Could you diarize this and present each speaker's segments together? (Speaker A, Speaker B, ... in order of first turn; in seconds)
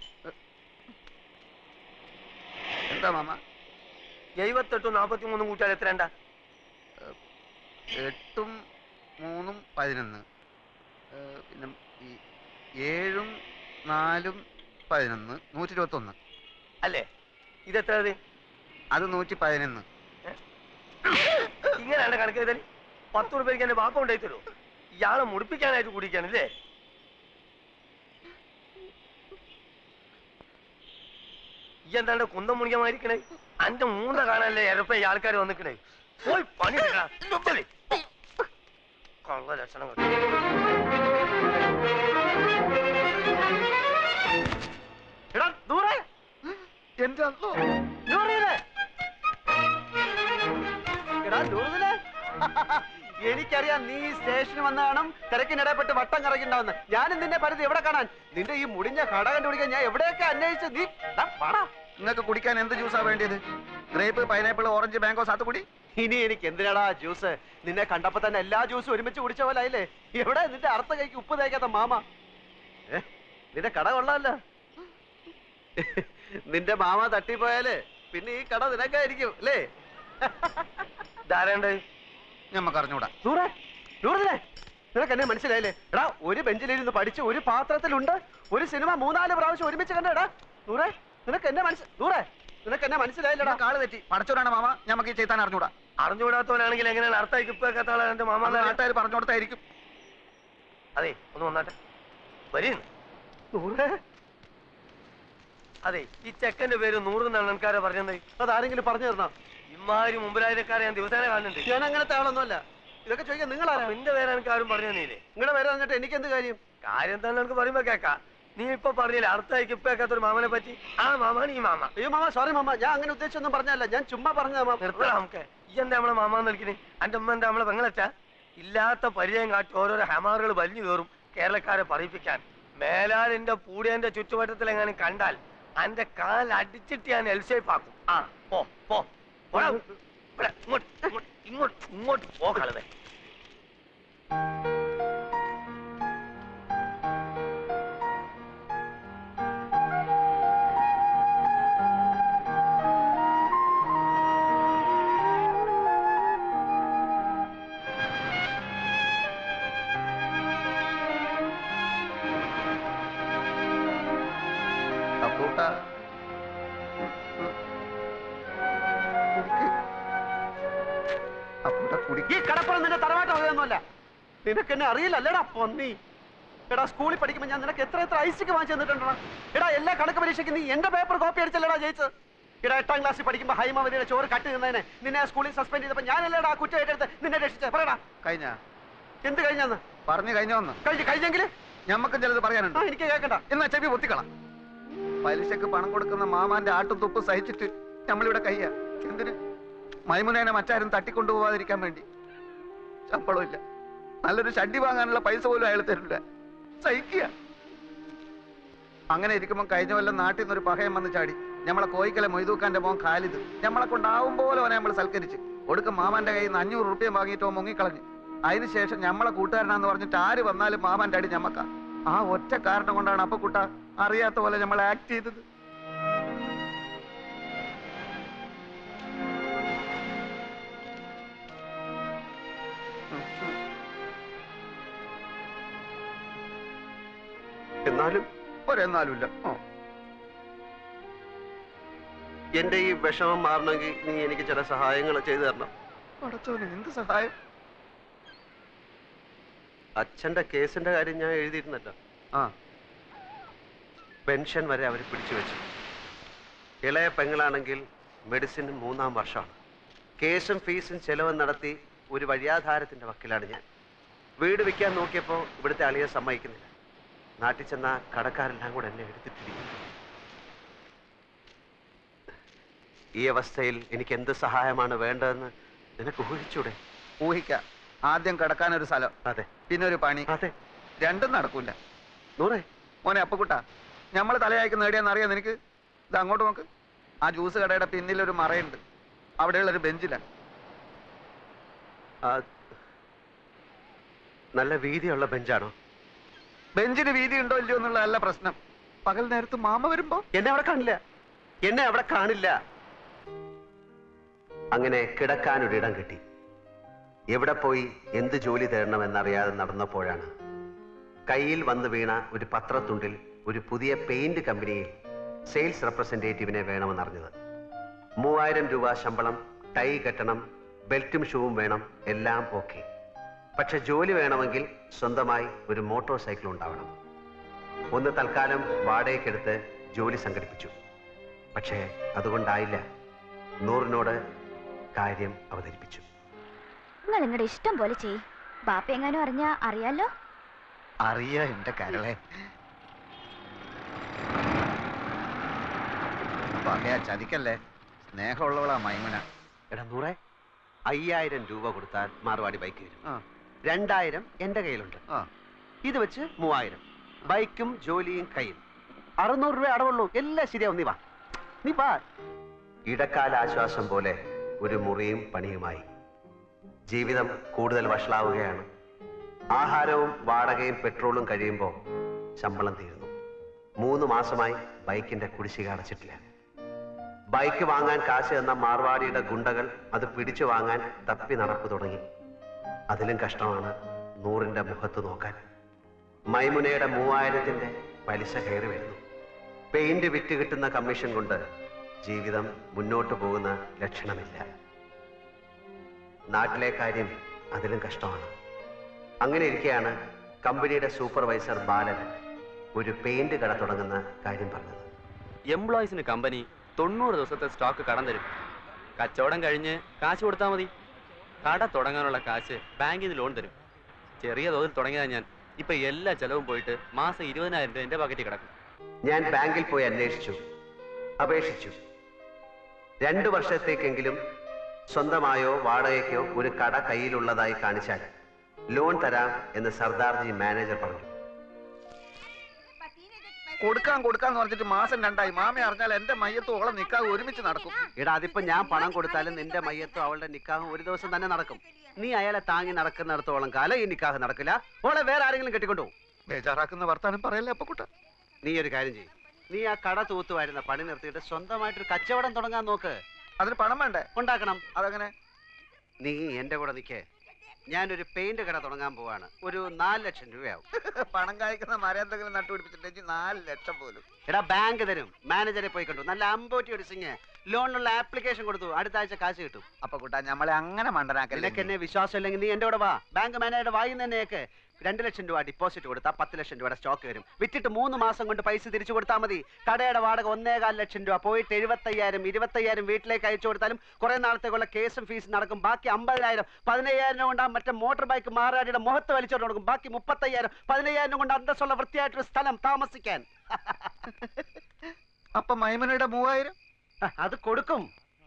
Speaker A: 2.9-3.4, 7.9-8.5, 9.2-10.2, 11.1-12.2, 12.8-13.3, 13.9-14.4, 14.9-16.1, 18.9-19.8, 46.5-47.6, 62.0-63.4, 63.9-65.6, 82.5-83.1, 93.4-95.7, 98.4-99.6, 165.2-165.7, 167.2-167.5, 169.4-169.7, 171.7-172.3, 188.2-188.6, 190.1-190.8, 191.9-192.8, 193.5-194.3, 195.2-199.3, 200.1-202.0, 203.1-203.6, 204.2-206.2, 206.8-207.3, 209.1-225.4, 233.1-233.6, 238.7-239.6, 246.2-247.3, 277.2-279.1, 279.7-280.3, 281.0-281.8, 283.0-283.6, 284.1-285.6, 286.1-286.6, 287.2-288.8, 289.4-290.2, 296.8-300.2, 341.0-342.2, 346.6-347.6, 348.1-349.2, 433.6-437.9, 446.3-447.9, 453.4-454.1, 454.7-455.1, 460.8-464.0, 469.8-471.7, 495.4-496.5
Speaker B: 4.4-6.1, 17.7-18.2, 21.7-24.4, 25.0-26.5, 31.9-37.7, 39.3-40.1, 81.3-81.8, 96.0-98.8, 101.0-101.7, 102.5-102.8, 105.8-108.2, 109.7-111.7, 113.7-115.2, 116.8-121.9, 124.8-139.8, 140.4-142.8
Speaker C: 45.3-46.0, 48.1-48.6, 51.2-61.7, 66.0-72.0, 72.9-74.4, 75.8-79.6, 80.2-80.8, 83.2-84.4, 84.9-93.6, 103.5-104.0, 108.4-109.3, 111.7-114.0, 115.3-116.6, 122.0-125.1, 172.3-173.8, 174.4-176.0, 176.7-182.1, 182.6-188.0, 189.2-189.8, 190.8-191.5, 192.7-193.4, 237.8-238.3, 242.6-245.7, 250.0-251.9, 254.3-255.6, 256.8-259.5, 260.2-263.6, 264.4-266.7, 267.4-269.7, 273.2-276.8, 280.3-280.5, 282.4-282.6, 294.6-295.7, 300.3-301.0, 301.6-302.5, 304.7-306.2, 307.3-310.3, 311.3-314.9, 315.5-317.3, 318.2-322.8, 323.6-326.9, 327.9-330.7, 331.5-332.8, 333.6-334.1, 334.9-336.0, 349.7-350.2, 350.9-353.0, 353.7-355.0, 355.8-358.6, 359.2-361.0, 361.6-362.0, 362.9-365.8, 366.9-368.6, 369.5-371.7, 372.4-373.1, 373.8-376.2, 377.3-382.0, 382.9-385.4, 386.3-389.0, 389.7-391.4, 392.0-394.4, 396.3-398.3, 399.2-402.0, 402.8-404.9, 419.1-420.4, 421.2-421.8, 423.0-424.2, 424.9-428.1, 428.7-431.1, 438.0-445.9, 448.4-453.0, 454.1-454.6, 456.0-457.0, 457.7-460.6, 464.3-469.6, 471.3-493.9, 497.1-497.9
Speaker D: 337.1-340.1
Speaker E: 405.5-408.3, 408.9-410.7, 411.4-413.6, 414.2-418.5